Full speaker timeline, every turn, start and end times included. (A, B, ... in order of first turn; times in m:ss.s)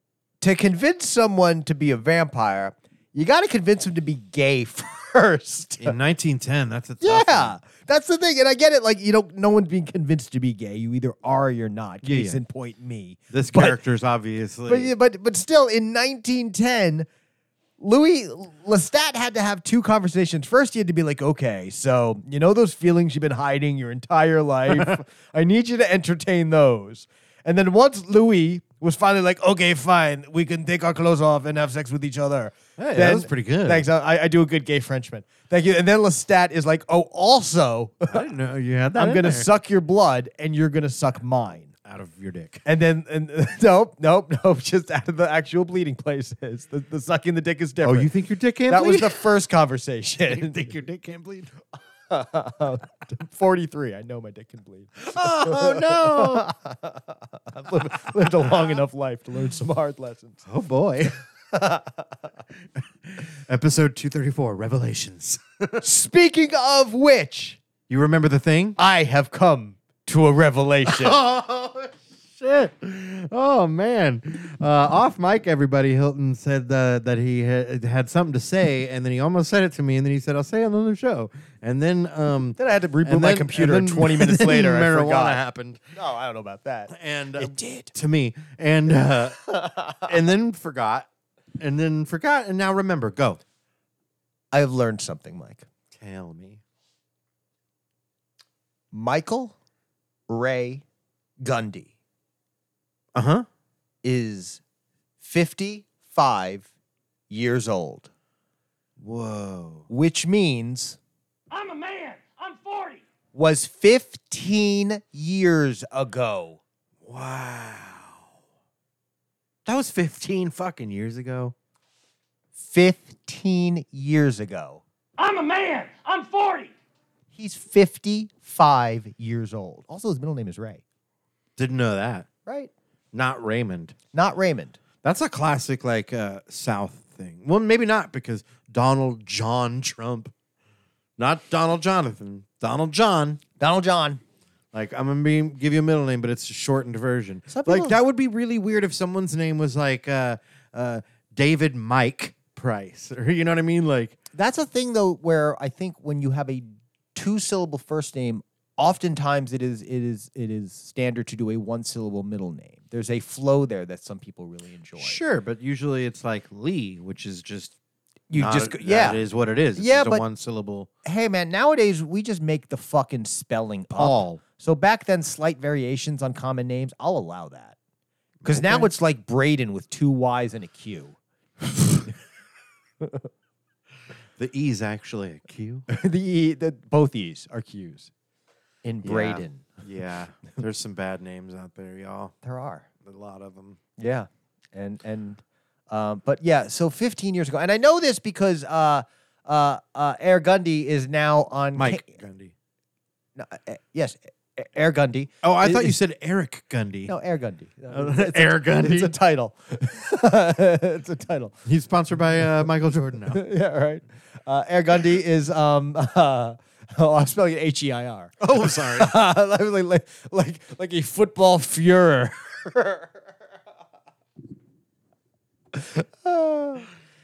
0:00.4-0:06.0 A
0:05.8-0:07.5 B
0:07.0-0:13.8 A
0:12.0-0:12.4 B
0:13.3-0:14.9 B
0:14.7-0:17.1 A
0:17.8-0:38.3 A
0:24.7-0:25.0 B
0:32.8-0:33.8 B
0:38.1-0:39.5 B
0:38.9-0:41.7 A
0:41.8-0:42.6 B
0:42.6-0:48.1 A
0:47.8-0:49.3 B
0:48.7-0:50.7 A
0:50.3-0:51.5 B
0:52.1-1:00.4 A
0:55.1-0:56.5 B
0:58.0-0:58.7 B
1:00.4-1:01.2 B
1:01.5-1:02.1 A
1:02.8-1:05.8 B
1:05.8-1:07.6 A
1:07.9-1:08.8 B
1:08.8-1:11.2 A
1:10.8-1:25.8 B
1:22.6-1:25.4 A
1:25.9-1:27.9 A
1:26.9-1:33.4 B
1:29.4-1:30.1 A
1:34.5-1:35.6 A
1:35.9-1:36.6 B
1:38.9-1:39.5 A
1:40.3-1:40.8 A
1:41.4-1:41.9 A
1:43.1-1:43.4 B
1:44.0-1:44.6 A
1:45.2-1:46.7 A
1:47.3-1:48.1 A
1:49.0-1:49.9 B
1:49.9-1:51.0 A
1:51.5-1:53.0 C
1:53.3-1:56.6 A
1:57.0-1:58.2 B
1:59.6-2:01.5 B
2:02.6-2:04.8 A
2:05.2-2:06.7 C
2:07.3-2:10.8 A
2:11.6-2:12.3 B
2:12.4-2:12.7 A
2:13.1-2:14.0 B
2:14.1-2:14.8 A
2:15.0-2:20.3 B
2:21.2-2:23.4 B
2:23.6-2:24.2 A
2:24.7-2:34.2 B
2:27.5-2:28.0 A
2:34.3-2:45.2 A
2:45.0-2:47.8 B
2:48.3-2:49.2 A
2:48.3-2:50.9 B
2:49.8-2:50.2 A
2:51.0-2:57.8 A
2:53.9-2:54.4 B
2:58.4-2:58.9 B
2:58.4-3:01.2 A
3:01.7-3:02.1 A
3:03.0-3:03.3 A
3:04.4-3:05.8 B
3:05.9-3:08.1 A
3:08.8-3:09.8 A
3:09.0-3:12.3 B
3:12.4-3:12.9 A
3:13.0-3:13.8 B
3:14.0-3:22.1 A
3:21.8-3:22.5 B
3:23.4-3:26.0 A
3:25.4-3:27.1 B
3:27.1-3:31.6 A
3:27.9-3:29.1 B
3:31.6-3:33.4 B
3:33.3-3:43.2 A
3:38.4-3:39.1 B
3:45.7-3:46.9 A